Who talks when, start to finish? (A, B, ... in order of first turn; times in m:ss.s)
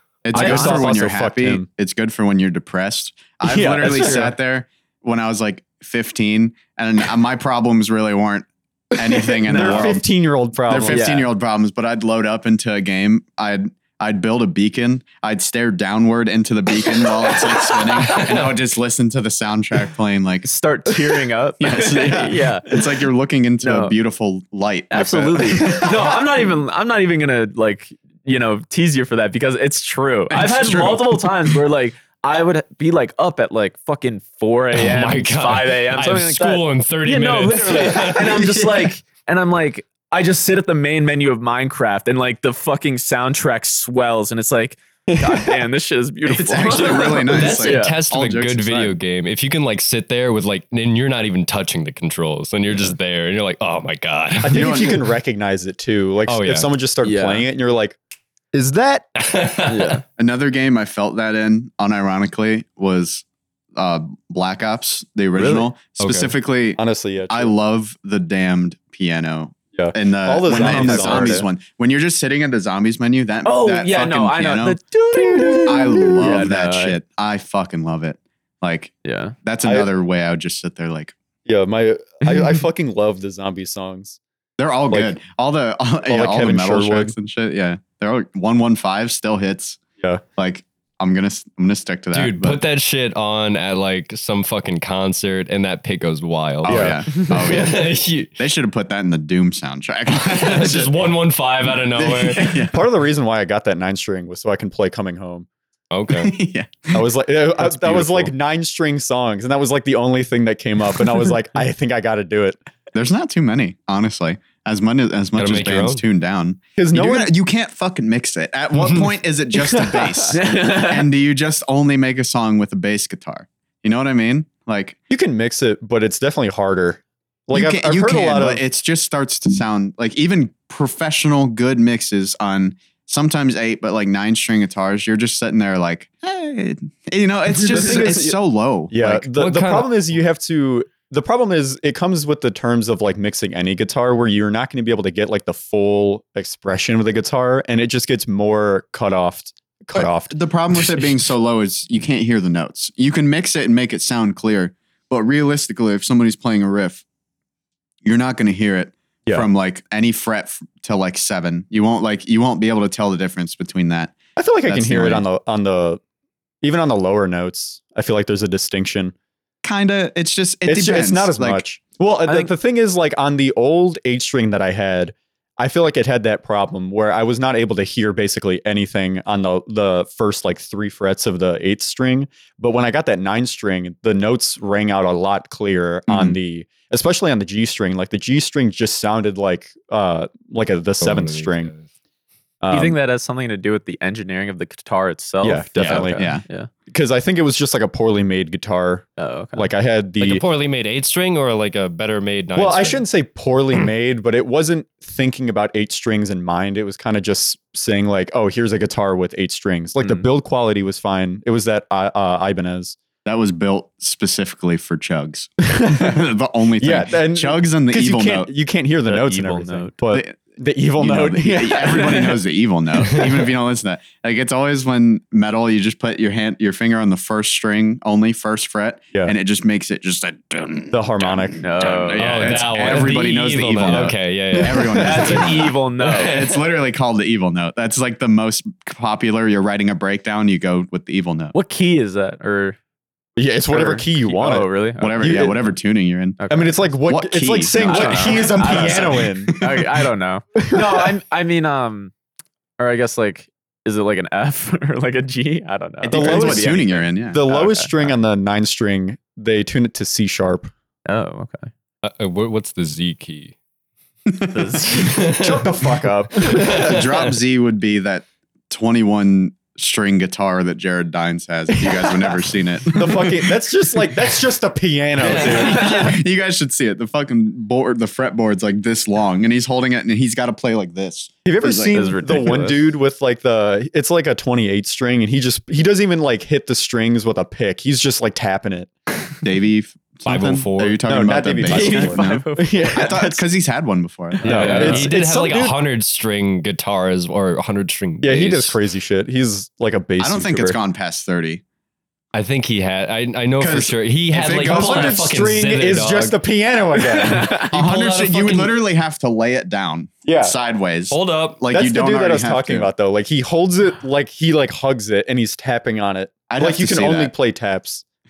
0:00.2-0:10.0 A
0:00.3-0:01.7 B
0:00.3-0:01.0 C
0:03.4-0:04.3 B
0:03.8-0:04.3 C
0:09.1-0:11.1 B
0:09.4-0:10.0 C
0:10.7-0:20.5 A
0:10.9-0:11.3 C
0:18.2-0:18.5 D
0:20.4-0:22.8 C
0:21.6-0:26.1 A
0:23.6-0:23.9 C
0:24.9-0:48.0 C
0:30.3-0:31.5 A
0:34.7-0:38.7 D
0:38.4-0:38.7 B
0:46.3-0:48.9 A
0:47.0-0:55.0 D
0:54.4-0:58.0 B
0:54.5-0:55.0 A
0:56.3-0:56.7 D
0:57.0-0:57.5 C
0:58.5-0:59.1 B
0:59.2-1:00.0 D
0:59.7-1:00.0 C
1:00.2-1:14.8 A
1:05.4-1:05.7 C
1:06.0-1:06.3 D
1:06.8-1:07.5 B
1:09.8-1:11.4 B
1:10.5-1:11.5 C
1:13.4-1:17.0 C
1:15.1-1:16.5 B
1:15.6-1:21.2 A
1:19.0-1:19.4 C
1:19.6-1:19.9 B
1:21.5-1:24.2 B
1:24.6-1:29.8 A
1:26.1-1:27.2 B
1:30.4-1:32.6 A
1:32.1-1:38.3 D
1:36.6-1:41.0 A
1:36.7-1:37.0 B
1:40.2-1:42.7 D
1:41.9-1:42.8 A
1:42.6-1:45.5 B
1:45.9-1:46.3 D
1:46.1-1:47.0 A
1:46.9-1:52.6 B
1:47.7-1:48.3 A
1:52.9-2:05.0 A
1:55.4-1:56.0 D
1:56.8-1:57.3 B
1:59.6-2:00.4 B
2:00.3-2:01.1 C
2:05.1-2:08.6 B
2:07.5-2:19.2 A
2:17.6-2:18.4 B
2:18.9-2:30.4 B
2:19.4-2:19.9 D
2:30.0-2:37.0 A
2:38.0-2:45.2 A
2:44.4-2:46.0 B
2:46.6-2:49.1 B
2:49.6-2:51.6 A
2:50.7-3:11.7 B
2:52.3-2:52.5 C
3:06.1-3:06.4 A
3:11.0-3:11.8 D
3:12.6-3:13.0 B
3:12.7-3:16.7 C
3:15.4-3:16.3 B
3:15.8-3:16.4 A
3:16.9-3:20.4 B
3:19.2-3:19.7 C
3:20.2-3:23.0 D
3:22.6-3:33.0 B
3:30.0-3:30.3 C
3:33.2-3:38.5 A
3:35.7-3:36.2 B
3:36.8-3:42.4 B
3:39.1-3:40.0 C
3:40.1-3:40.4 A
3:41.0-4:01.6 A
3:43.0-3:43.5 D
3:50.9-3:51.6 B
3:51.6-3:52.6 C
3:52.2-3:55.6 D
3:55.0-3:56.3 C
3:56.1-3:56.6 D
4:01.5-4:02.8 C
4:03.4-4:04.7 B
4:03.7-4:05.5 C
4:05.0-4:06.4 A
4:05.2-4:05.6 B
4:06.4-4:06.8 C
4:06.5-4:09.7 B
4:07.0-4:09.8 A
4:07.7-4:12.1 C
4:10.6-4:11.0 B
4:12.8-4:18.2 C
4:16.0-4:17.4 A
4:16.1-4:16.8 B
4:17.3-4:20.7 B
4:21.1-4:21.7 C
4:22.0-4:23.5 D
4:24.3-4:24.9 A
4:24.5-4:25.1 C
4:24.9-4:25.7 D
4:25.3-4:27.0 B
4:26.5-4:27.3 D
4:26.5-4:33.6 A
4:31.7-4:36.1 B
4:35.2-4:36.0 D
4:35.2-4:42.0 A
4:41.5-4:48.9 B
4:41.9-4:42.9 C
4:49.4-4:55.0 A
4:50.2-4:51.0 D
4:51.1-4:53.4 B
4:51.6-4:53.2 C
4:54.4-4:55.1 C
4:54.4-4:58.8 D
4:54.4-4:55.8 B
4:58.2-5:00.8 B
5:00.2-5:01.6 A
5:02.3-5:06.4 D
5:03.6-5:05.3 A
5:04.5-5:07.7 B
5:07.0-5:07.7 C
5:07.5-5:08.8 D
5:07.7-5:12.9 A
5:10.2-5:10.6 B
5:11.1-5:11.6 D
5:11.7-5:18.0 B
5:16.5-5:17.3 A